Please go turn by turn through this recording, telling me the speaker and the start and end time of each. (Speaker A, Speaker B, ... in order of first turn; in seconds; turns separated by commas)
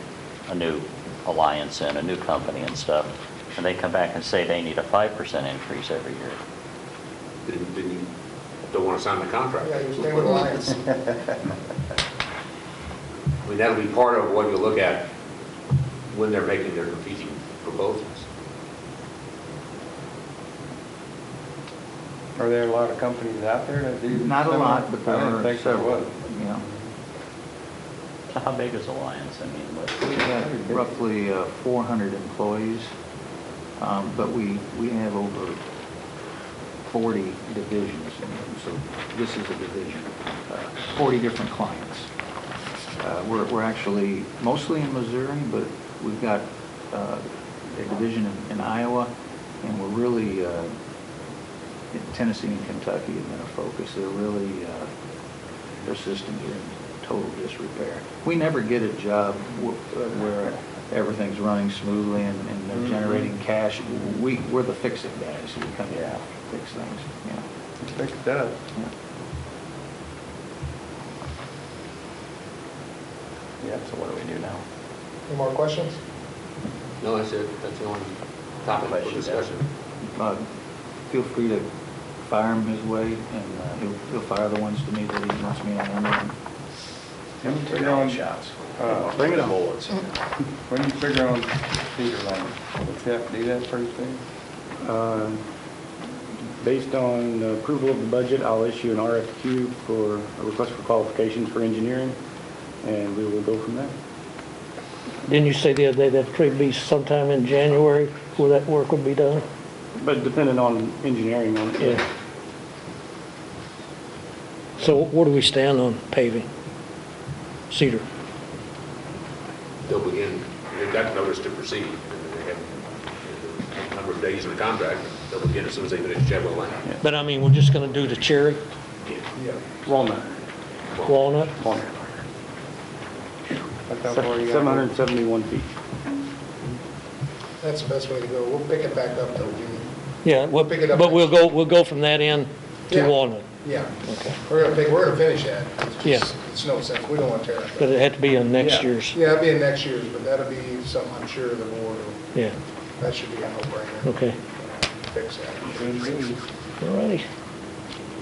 Speaker A: 0.5-6.4, Speaker B: 7.5-8.1, Speaker B: 8.7-10.7, Speaker C: 9.6-10.8, Speaker B: 13.4-15.1, Speaker B: 16.1-18.2, Speaker D: 22.4-26.1, Speaker E: 24.1-26.7, Speaker A: 28.3-30.0, Speaker E: 30.0-32.9, Speaker D: 30.1-30.9, Speaker E: 33.8-35.6, Speaker E: 36.9-42.1, Speaker E: 43.0-49.1, Speaker E: 49.6-50.7, Speaker E: 51.9-54.9, Speaker E: 55.8-67.5, Speaker D: 62.7-63.3, Speaker D: 67.8-68.6, Speaker D: 73.6-74.6, Speaker C: 75.3-76.0, Speaker B: 77.0-78.1, Speaker B: 78.6-79.7, Speaker A: 79.0-79.4, Speaker E: 80.2-80.4, Speaker E: 81.1-81.7, Speaker E: 82.2-86.3, Speaker D: 87.4-88.2, Speaker E: 87.4-90.1, Speaker D: 88.8-89.5, Speaker F: 89.1-89.5, Speaker D: 90.7-94.2, Speaker F: 94.8-95.4, Speaker F: 96.6-102.2, Speaker F: 102.8-103.9, Speaker G: 105.3-109.5, Speaker F: 110.0-112.1, Speaker G: 114.8-116.5, Speaker G: 117.7-118.0, Speaker B: 119.9-122.7, Speaker B: 123.2-126.9, Speaker G: 127.0-128.6, Speaker F: 129.8-130.3, Speaker G: 131.1-131.6, Speaker F: 131.6-131.9, Speaker D: 133.9-134.9, Speaker F: 134.1-135.7, Speaker C: 137.6-139.9, Speaker G: 140.2-143.4, Speaker C: 140.6-141.4, Speaker C: 142.9-148.0, Speaker G: 144.1-144.4, Speaker G: 147.8-149.2, Speaker D: 148.6-148.9, Speaker C: 149.1-152.2, Speaker C: 153.0-154.2, Speaker G: 154.0-154.4, Speaker C: 155.0-156.2, Speaker D: 155.7-156.4, Speaker G: 156.8-157.2